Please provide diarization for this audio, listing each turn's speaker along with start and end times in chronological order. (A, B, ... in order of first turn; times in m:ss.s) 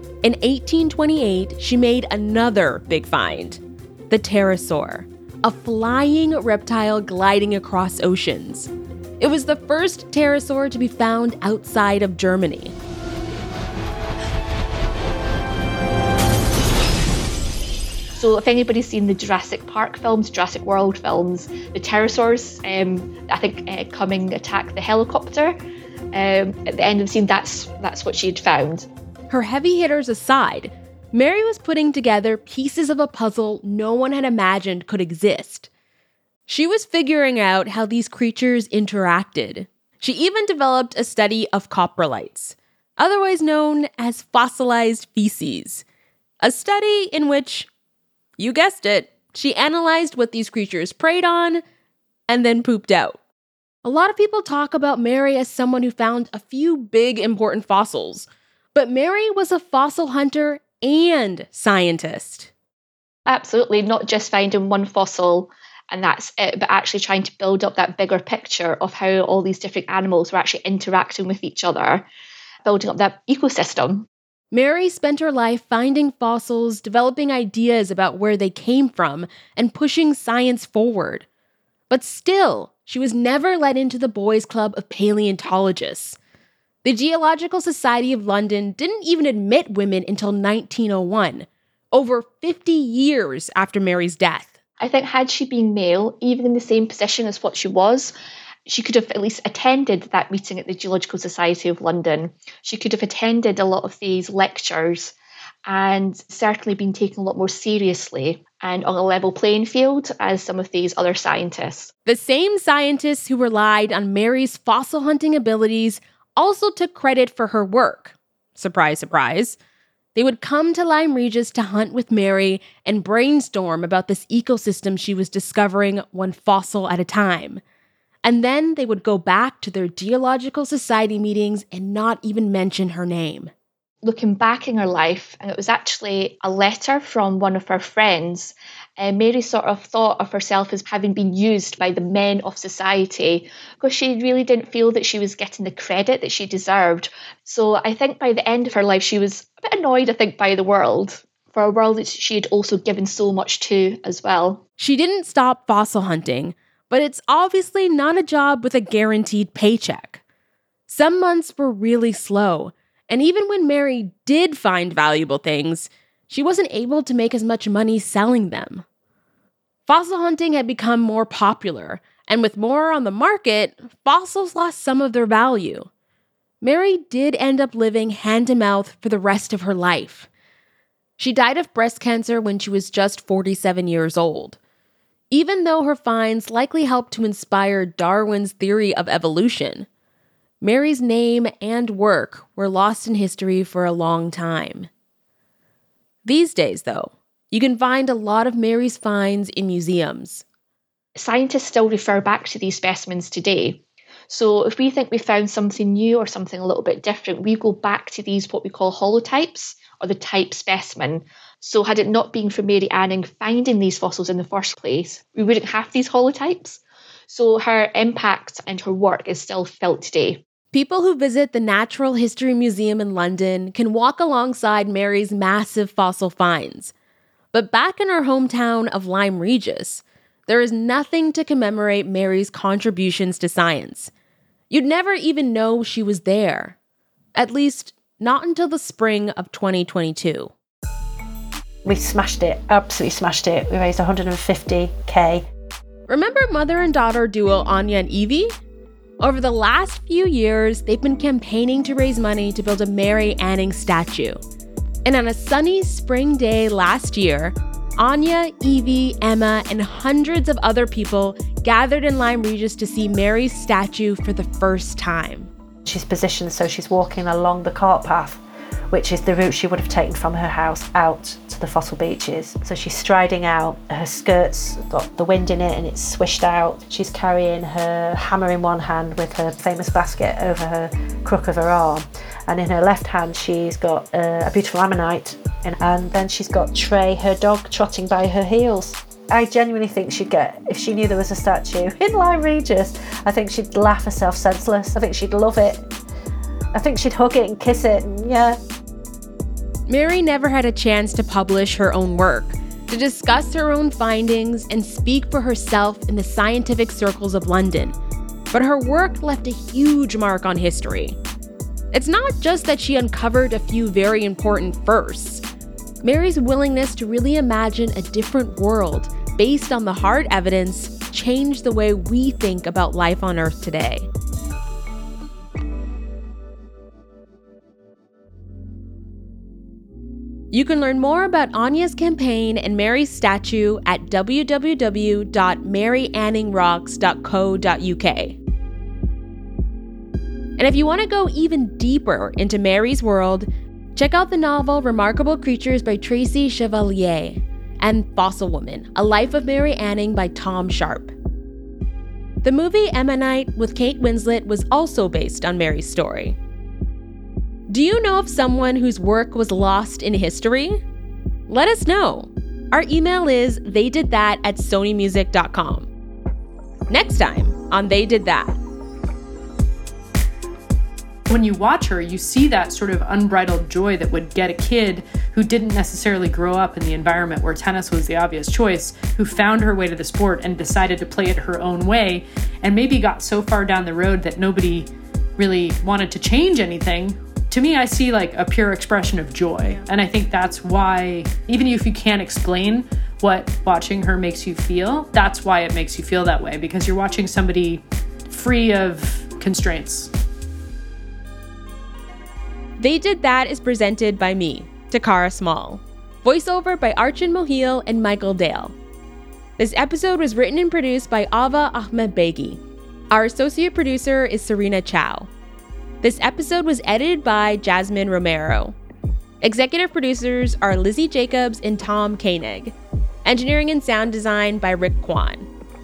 0:00.2-0:12.8 A
0:18.2-0:25.6 B
0:26.1-0:28.9 B
0:29.3-0:35.7 A
0:36.5-0:45.8 A
0:46.4-0:47.7 A
0:48.4-0:51.6 A
0:52.3-0:53.2 A
0:53.8-1:02.5 A
1:03.3-1:12.1 B
1:12.6-1:14.1 B
1:14.5-1:21.3 A
1:21.9-1:26.2 A
1:26.8-1:34.6 A
1:34.8-1:38.1 B
1:38.7-1:45.1 B
1:45.7-1:51.9 B
1:52.1-1:59.6 A
2:00.2-2:07.6 A
2:08.2-2:13.5 A
2:14.0-2:34.6 B
2:34.8-2:40.2 A
2:40.9-2:48.8 A
2:49.9-2:55.9 A
2:56.6-3:00.3 A
3:01.2-3:04.6 A
3:05.3-3:09.9 A
3:10.6-3:14.9 A
3:16.2-3:20.4 A
3:21.2-3:40.4 B
3:40.7-3:46.9 A
3:47.5-3:54.1 A
3:54.7-3:56.8 A
3:57.4-4:00.5 A
4:01.8-4:05.5 C
4:06.1-4:08.5 A
4:09.2-4:14.4 A
4:15.0-4:25.5 A
4:25.8-4:55.9 C
4:56.7-4:58.6 C
4:59.9-5:08.0 A
5:08.5-5:11.2 A
5:11.9-5:15.4 A
5:16.0-5:24.1 A
5:30.5-5:38.4 A
5:40.6-5:51.1 A
5:52.4-5:56.4 A
5:57.7-6:00.8 A
6:01.5-6:05.9 A
6:06.9-6:08.6 A
6:11.3-6:40.1 D
6:42.8-6:48.8 A
6:49.6-6:52.6 A
6:53.1-6:55.3 A
6:56.0-6:58.8 A
6:59.4-7:05.5 A